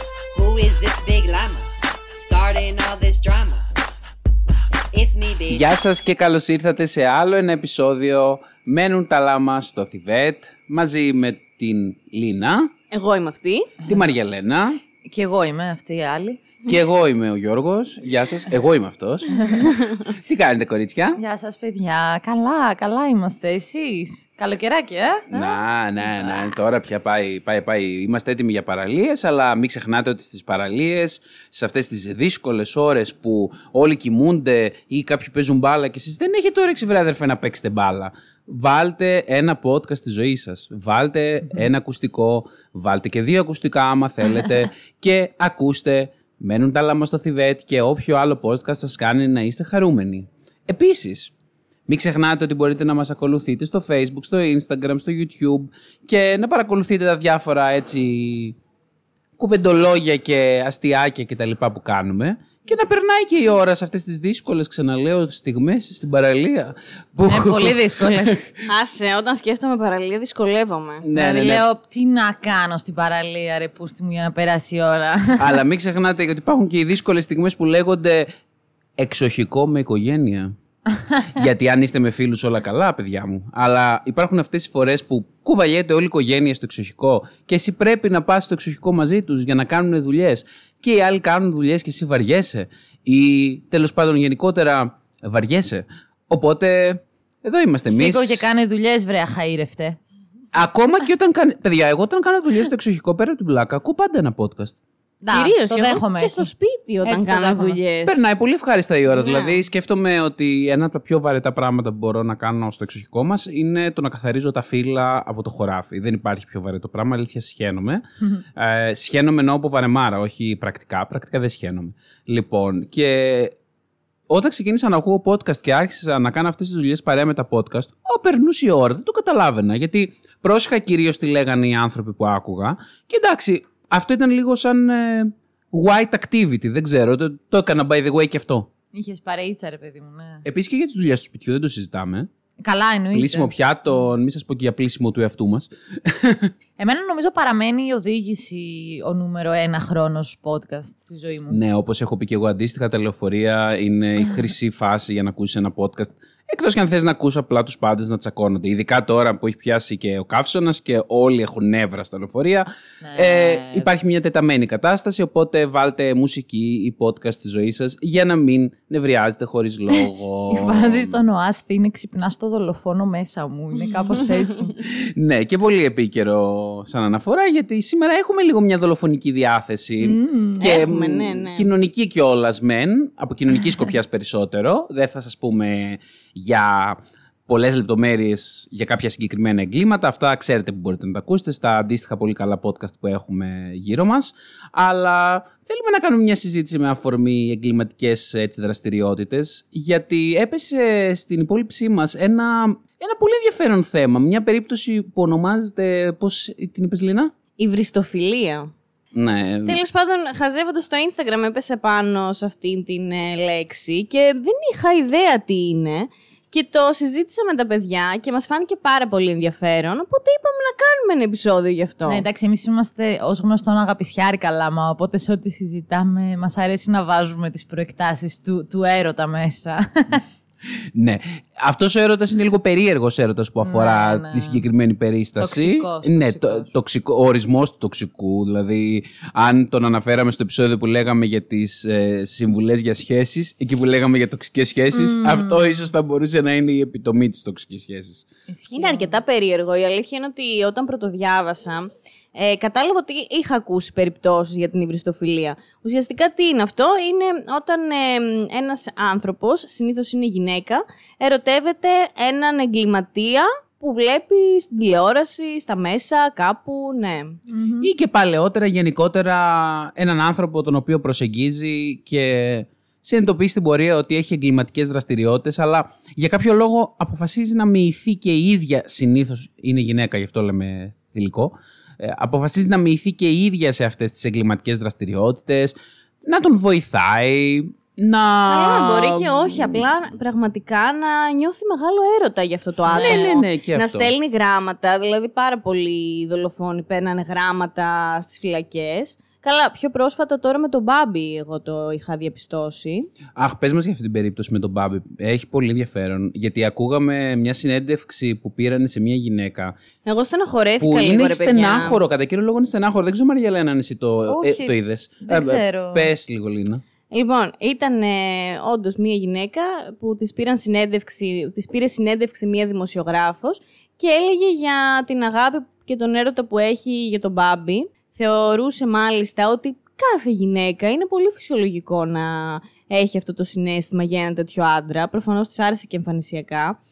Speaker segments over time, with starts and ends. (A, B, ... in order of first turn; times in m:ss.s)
0:00.3-0:03.6 A
0:04.9-0:05.6 A
0:05.5-0:12.7 B
0:12.9-0:13.7 C
0:13.8-0:14.8 B
0:15.0-0:16.4 D
0:16.6-0:21.2 B
0:19.4-0:19.6 D
0:19.7-0:19.9 C
0:21.2-0:25.6 D
0:25.3-0:51.3 B
0:26.2-0:26.5 D
0:51.9-0:58.6 B
0:59.4-1:08.5 B
1:07.2-1:08.4 D
1:08.7-1:11.0 C
1:11.0-1:11.6 B
1:11.1-1:15.6 D
1:15.4-1:18.3 B
1:19.0-1:20.5 B
1:21.3-1:38.4 B
1:37.9-1:40.0 D
1:40.5-1:44.8 B
1:45.2-1:46.5 D
1:45.3-1:48.3 C
1:47.0-1:47.8 D
1:48.0-1:58.0 B
1:49.1-1:49.6 D
1:58.5-2:03.5 B
2:04.3-2:18.7 B
2:18.9-2:20.4 D
2:20.4-2:22.3 B
2:22.6-2:23.5 D
2:23.1-2:26.5 B
2:26.8-2:31.6 D
2:31.5-2:51.2 B
2:43.0-2:43.9 D
2:50.5-2:54.7 D
2:54.8-3:27.3 B
3:00.0-3:00.7 D
3:00.6-3:01.7 C
3:27.6-3:28.7 C
3:29.1-3:29.8 B
3:29.6-3:42.2 C
3:42.1-3:50.2 D
3:51.0-4:08.2 B
3:53.6-3:54.6 D
3:55.4-3:56.7 D
4:04.9-4:05.9 D
4:08.5-4:09.1 D
4:08.7-4:27.4 C
4:27.5-4:27.9 D
4:27.8-4:49.9 B
4:48.5-5:03.1 C
4:52.9-4:53.3 D
4:52.9-4:54.1 B
5:03.4-5:09.7 B
5:10.0-5:12.0 C
5:10.8-5:16.8 B
5:14.3-5:16.1 D
5:17.1-5:36.8 C